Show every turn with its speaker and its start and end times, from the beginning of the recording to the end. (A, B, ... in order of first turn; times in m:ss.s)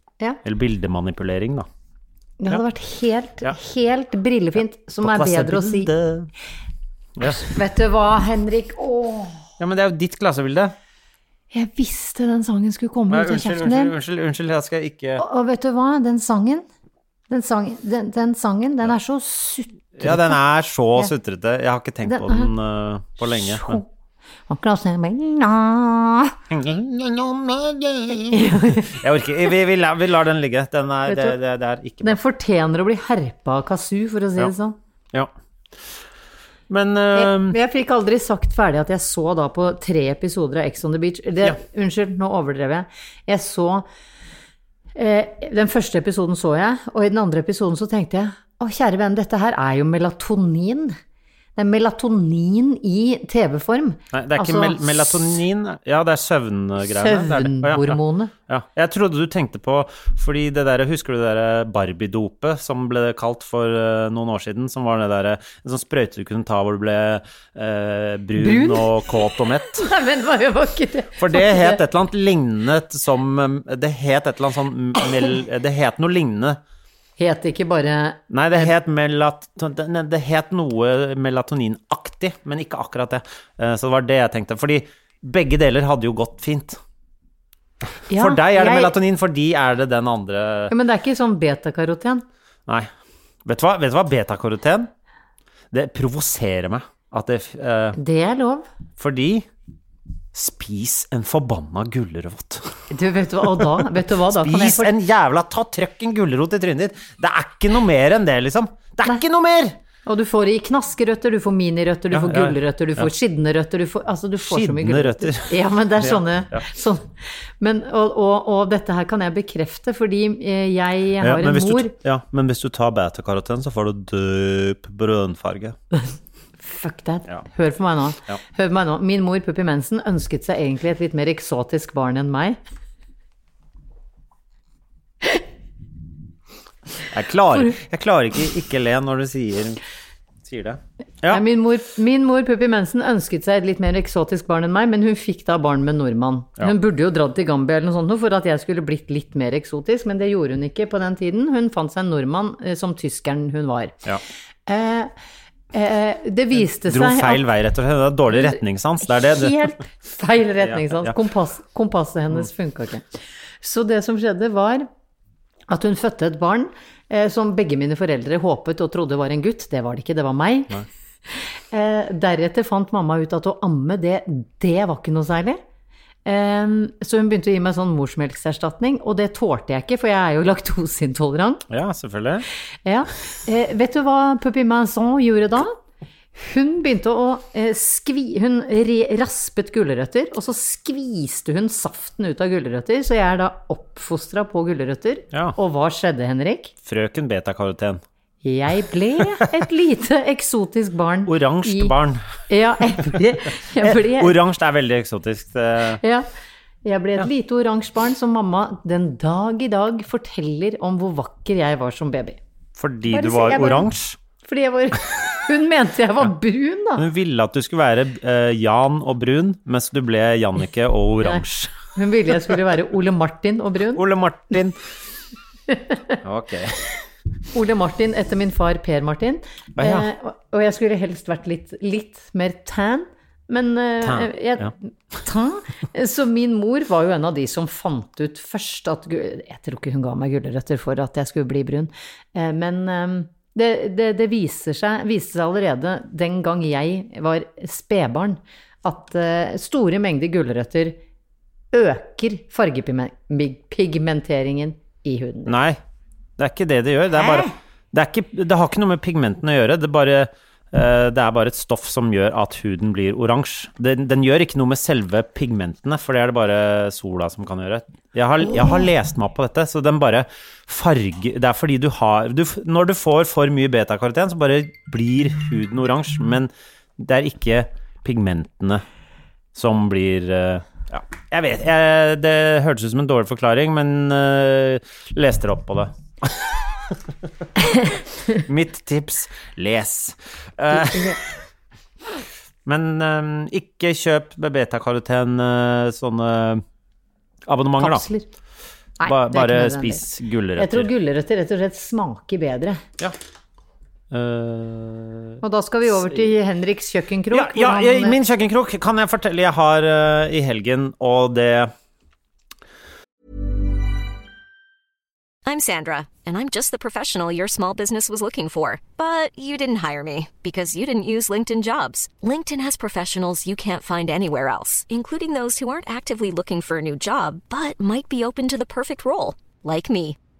0:00.4-0:01.7 A
0:02.4-0:05.9 B
0:05.0-0:06.3 A
0:07.2-0:07.5 A
0:07.2-0:09.4 B
0:09.6-0:10.7 A
0:11.5-0:13.9 B
0:13.1-0:15.2 A
0:15.2-0:16.6 B
0:17.3-0:20.4 B
0:20.0-0:23.8 A
0:22.0-0:22.5 B
0:23.2-0:23.9 B
0:24.5-0:26.4 B
0:26.5-0:32.2 A
0:28.3-0:28.9 B
0:31.1-0:31.4 B
0:32.0-0:34.8 B
0:36.7-0:37.6 A
0:37.1-0:43.8 B
0:45.0-0:51.0 B
0:51.6-0:55.3 B
0:54.1-1:09.9 A
0:56.8-0:58.3 B
1:08.4-1:08.9 B
1:09.8-1:11.8 B
1:11.2-1:16.6 A
1:17.2-1:18.7 B
1:18.3-1:26.8 A
1:28.1-1:28.9 B
1:28.1-1:30.7 A
1:30.7-1:32.2 B
1:33.4-1:34.9 A
1:35.7-1:38.0 A
1:37.9-1:38.6 B
1:39.0-1:39.5 A
1:40.3-1:42.8 A
1:42.9-1:44.9 B
1:43.6-1:49.8 A
1:50.0-2:01.9 B
1:52.1-1:53.1 A
1:54.4-1:56.6 A
2:01.2-2:05.8 A
2:06.6-2:12.6 B
2:17.1-2:19.8 A
2:20.4-2:21.4 A
2:21.3-2:34.0 B
2:34.7-2:35.1 B
2:35.7-2:37.4 B
2:36.6-2:39.7 A
2:39.1-2:43.0 B
2:40.6-2:41.1 A
2:43.6-2:44.9 B
2:45.7-2:50.8 B
2:51.3-2:55.6 B
2:56.2-3:01.6 B
3:01.7-3:02.4 A
3:02.8-3:05.8 B
3:06.3-3:16.7 B
3:16.8-3:18.0 A
3:18.4-3:21.9 B
3:21.2-3:22.2 A
3:22.5-3:24.4 B
3:23.8-3:26.0 A
3:26.0-3:26.2 B
3:26.8-3:32.4 B
3:32.8-3:34.2 A
3:33.1-3:33.9 B
3:34.4-3:37.0 B
3:37.0-3:41.7 A
3:41.2-3:44.0 B
3:43.9-3:44.8 A
3:45.7-3:46.2 B
3:46.2-3:46.9 A
3:47.5-4:11.0 B
3:49.8-3:50.1 A
3:54.0-3:54.7 A
4:11.7-4:15.5 B
4:15.5-4:15.8 A
4:16.4-4:38.8 A
4:17.2-4:17.5 B
4:39.5-4:47.0 A
4:48.3-4:51.2 A
4:50.7-4:51.2 B
4:52.6-4:56.6 A
4:57.4-4:58.0 A
4:57.8-4:58.3 B
4:59.0-5:00.0 B
4:59.0-5:00.9 A
5:00.6-5:02.8 B
5:04.1-5:05.4 A
5:05.4-5:08.2 B
5:07.3-5:11.7 A
5:15.4-5:30.2 C